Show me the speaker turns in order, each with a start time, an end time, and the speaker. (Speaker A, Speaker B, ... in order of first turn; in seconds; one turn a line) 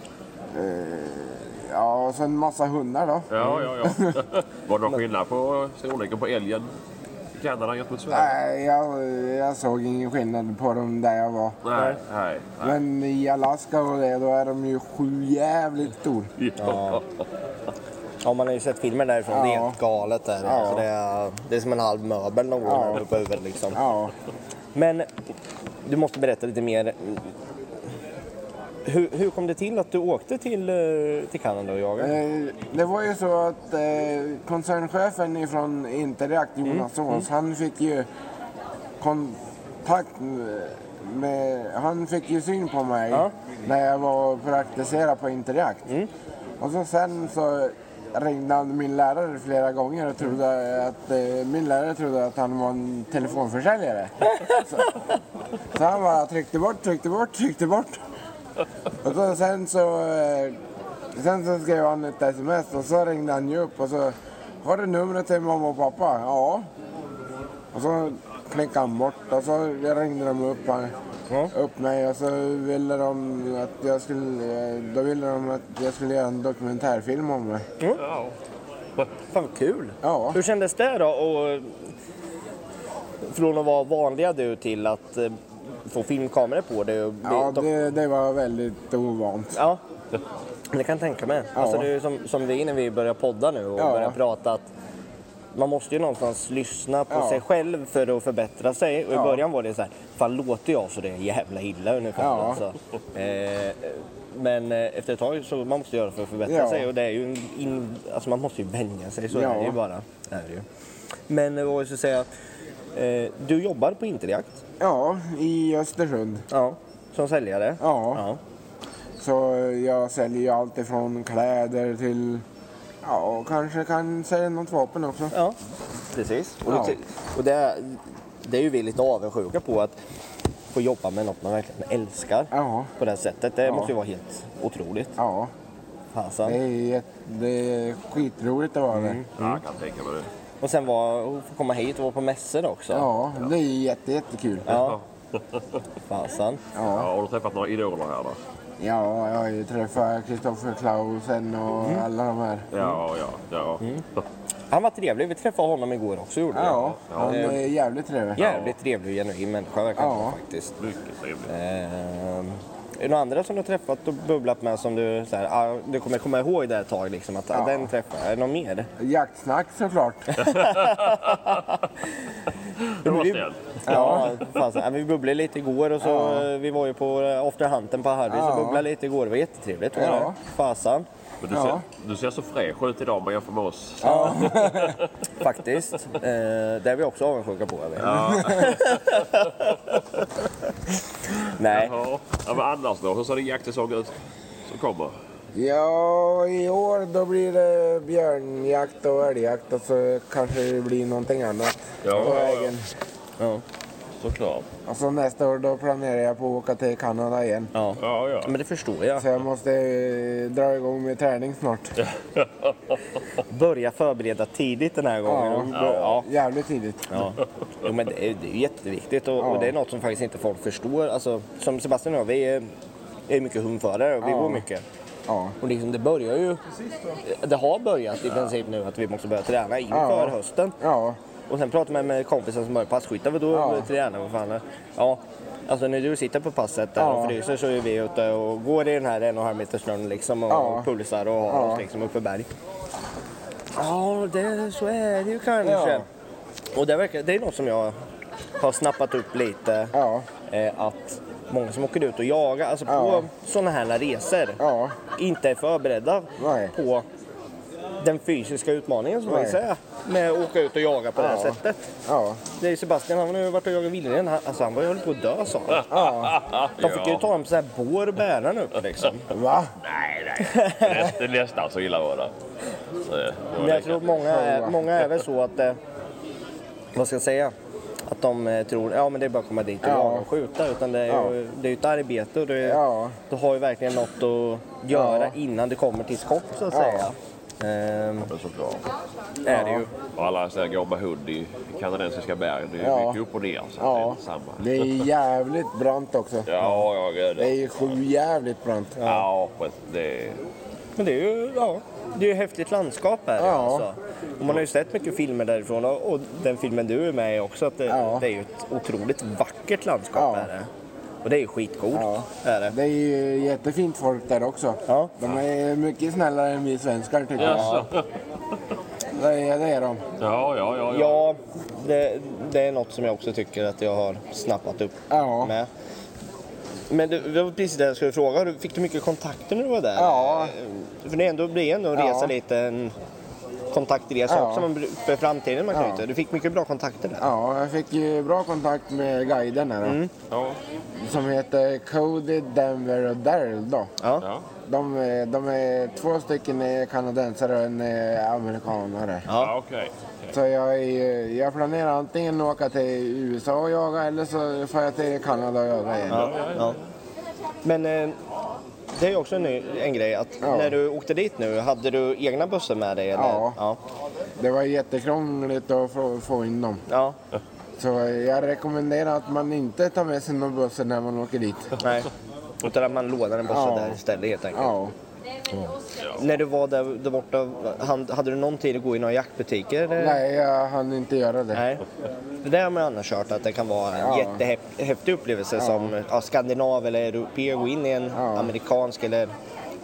Speaker A: 0.5-4.2
Speaker B: 3.3-6.7
Speaker B: 7.3-8.3
Speaker A: 8.1-11.6
Speaker B: 11.6-12.8
Speaker A: 12.6-16.3
Speaker B: 16.4-17.0
Speaker C: 16.6-17.0
Speaker C: 18.2-23.8
Speaker A: 19.3-19.8
Speaker A: 20.4-20.9
Speaker A: 22.6-23.0
Speaker A: 23.7-24.1
Speaker C: 24.7-25.1
Speaker C: 25.8-27.3
Speaker C: 28.8-32.1
Speaker A: 32.0-38.1
Speaker C: 36.6-37.2
Speaker A: 39.0-45.9
Speaker A: 46.6-54.9
Speaker A: 55.7-58.0
Speaker A: 59.0-60.6
Speaker A: 61.1-66.7
Speaker A: 67.7-70.9
Speaker A: 71.5-77.6
Speaker B: 78.0-78.3
Speaker C: 79.3-81.9
Speaker A: 80.0-80.4
Speaker C: 83.2-87.7
Speaker A: 87.2-89.6
Speaker C: 89.5-89.8
Speaker C: 90.7-94.7
Speaker A: 91.5-91.9
Speaker A: 93.8-94.2
Speaker C: 95.5-110.6
Speaker A: 97.1-97.4
Speaker A: 99.1-99.4
Speaker A: 102.2-102.6
Speaker A: 106.5-106.9
Speaker A: 109.3-109.8
Speaker C: 111.3-112.3
Speaker C: 112.9-114.6
Speaker A: 114.8-116.5
Speaker C: 116.5-118.4
Speaker A: 117.8-118.2
Speaker A: 119.2-122.4
Speaker A: 123.0-125.3
Speaker C: 125.3-125.6
Speaker C: 126.1-130.0
Speaker A: 126.7-127.0
Speaker C: 130.7-135.1
Speaker A: 132.5-132.9
Speaker A: 133.6-133.9
Speaker A: 135.2-135.5
Speaker C: 136.1-136.6
Speaker A: 136.4-139.2
Speaker C: 138.9-139.6
Speaker B: 139.4-140.3
Speaker C: 140.6-143.1
Speaker A: 142.9-144.8
Speaker C: 144.7-145.0
Speaker B: 144.7-145.8
Speaker C: 146.1-146.6
Speaker A: 146.7-147.1
Speaker B: 146.8-148.4
Speaker A: 148.8-152.7
Speaker B: 152.7-154.2
Speaker C: 154.7-157.6
Speaker A: 156.5-158.4
Speaker B: 156.6-157.6
Speaker C: 158.3-160.8
Speaker B: 158.4-158.7
Speaker A: 159.9-160.4
Speaker B: 160.8-161.5
Speaker C: 161.5-168.9
Speaker A: 167.5-167.9
Speaker A: 169.0-170.6
Speaker C: 170.4-171.9
Speaker B: 170.4-171.7
Speaker B: 172.8-174.2
Speaker C: 173.0-181.1
Speaker A: 173.8-174.3
Speaker A: 176.0-176.5
Speaker A: 178.3-178.8
Speaker A: 179.9-180.4
Speaker B: 181.4-185.1
Speaker A: 181.5-181.8
Speaker A: 184.0-185.0
Speaker C: 184.0-184.7
Speaker C: 185.3-190.1
Speaker B: 188.0-189.8
Speaker A: 188.2-188.8
Speaker C: 191.5-191.9
Speaker B: 191.7-194.1
Speaker B: 194.7-195.1
Speaker A: 195.5-202.9
Speaker B: 202.0-202.7
Speaker C: 203.4-203.6
Speaker B: 204.2-204.7
Speaker A: 204.8-207.7
Speaker C: 207.7-209.3
Speaker B: 208.0-208.5
Speaker A: 209.2-212.0
Speaker B: 212.0-213.0
Speaker C: 213.3-216.3
Speaker A: 215.2-217.3
Speaker B: 215.7-216.2
Speaker C: 217.1-222.7
Speaker A: 219.4-219.7
Speaker C: 223.3-224.8
Speaker A: 224.2-224.6
Speaker A: 225.3-225.5
Speaker C: 225.6-226.6
Speaker C: 227.2-230.8
Speaker A: 229.9-231.2
Speaker C: 231.5-242.5
Speaker A: 233.5-233.9
Speaker A: 237.0-237.4
Speaker A: 240.5-240.9
Speaker A: 241.5-241.8
Speaker C: 243.8-246.1
Speaker A: 245.6-246.1
Speaker C: 246.7-247.9
Speaker C: 248.6-249.9
Speaker A: 249.9-250.3
Speaker C: 250.5-254.6
Speaker A: 252.8-253.3
Speaker A: 254.6-255.0
Speaker C: 255.1-257.0
Speaker A: 256.4-256.7
Speaker C: 258.0-261.9
Speaker A: 259.2-259.6
Speaker A: 261.1-262.4
Speaker C: 262.5-265.9
Speaker B: 265.8-267.3
Speaker A: 265.9-266.3
Speaker C: 266.8-269.3
Speaker A: 269.3-269.7
Speaker B: 269.8-272.3
Speaker C: 270.4-271.1
Speaker B: 273.0-274.0
Speaker C: 273.5-275.8
Speaker A: 274.2-274.9
Speaker C: 276.9-277.5
Speaker C: 278.1-288.3
Speaker A: 279.8-280.3
Speaker A: 281.1-281.4
Speaker A: 282.6-283.2
Speaker A: 284.9-285.4
Speaker A: 286.7-287.1
Speaker B: 288.2-288.9
Speaker C: 289.4-289.9
Speaker A: 289.5-289.9
Speaker B: 290.1-295.1
Speaker A: 292.8-293.2
Speaker A: 293.8-299.0
Speaker B: 296.4-298.0
Speaker C: 299.0-299.3
Speaker B: 299.0-300.4
Speaker C: 300.9-310.7
Speaker A: 303.4-303.9
Speaker A: 307.9-308.3
Speaker A: 310.1-310.5
Speaker C: 311.2-312.8
Speaker A: 311.9-317.8
Speaker C: 314.9-315.1
Speaker B: 317.4-318.1
Speaker C: 317.4-317.9
Speaker A: 319.1-320.0
Speaker B: 320.2-321.2
Speaker C: 320.9-325.7
Speaker A: 325.1-325.5
Speaker C: 326.9-332.9
Speaker A: 329.9-330.6
Speaker A: 331.9-332.4
Speaker C: 333.7-337.3
Speaker A: 334.3-334.7
Speaker A: 335.7-336.1
Speaker A: 337.2-340.0
Speaker C: 339.8-340.1
Speaker B: 340.3-340.6
Speaker A: 341.0-343.9
Speaker C: 344.0-344.2
Speaker B: 344.2-344.4
Speaker A: 344.6-349.3
Speaker C: 349.3-349.5
Speaker B: 349.3-350.4
Speaker A: 350.3-356.4
Speaker B: 356.1-356.9
Speaker C: 356.1-356.8
Speaker C: 357.6-358.2
Speaker C: 358.9-363.8
Speaker A: 360.4-360.8
Speaker A: 363.1-363.6
Speaker A: 364.4-366.8
Speaker C: 366.9-367.1
Speaker A: 367.8-371.7
Speaker C: 371.8-372.1
Speaker C: 372.6-374.8
Speaker A: 373.5-374.0
Speaker A: 374.5-374.9
Speaker C: 375.5-380.2
Speaker A: 380.0-381.6
Speaker C: 381.5-381.9
Speaker C: 382.4-389.3
Speaker A: 384.0-384.4
Speaker A: 385.6-385.9
Speaker A: 388.1-388.5